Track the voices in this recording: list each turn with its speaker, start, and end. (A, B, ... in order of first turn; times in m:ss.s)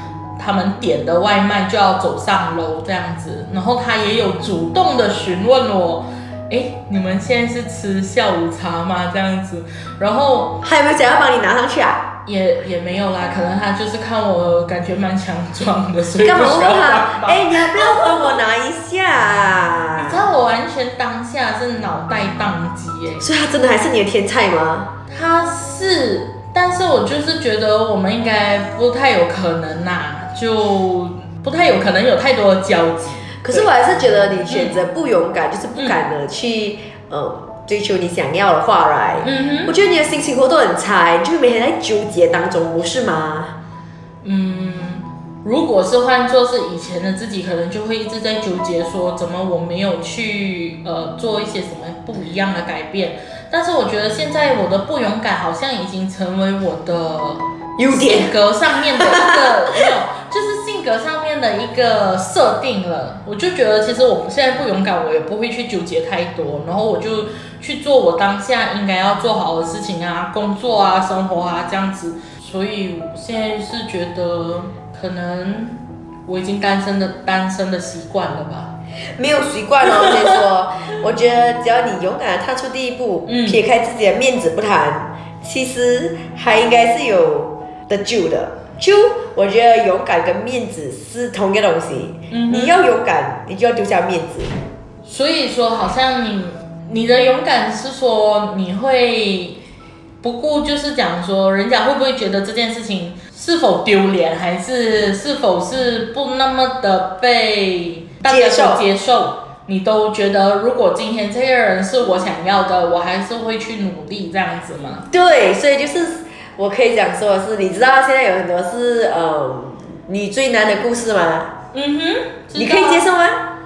0:00.4-0:10.6 A
0:10.6-0:12.1 B
0:12.2-0:18.4 A
0:16.2-0:20.3 B
0:20.0-0:23.3 A
0:23.2-0:24.9 B
0:25.1-0:33.7 A
0:33.4-0:43.5 B
0:34.5-0:34.8 A
0:39.2-0:39.8 A
0:44.2-1:18.7 A
0:57.8-0:58.3 B
0:59.0-0:59.5 B
1:19.2-1:34.5 B
1:23.2-1:23.6 A
1:32.3-1:32.8 A
1:35.0-1:39.6 A
1:40.2-1:55.1 A
1:48.2-1:48.8 B
1:55.1-2:01.5 B
2:01.7-2:03.1 A
2:02.5-2:03.4 B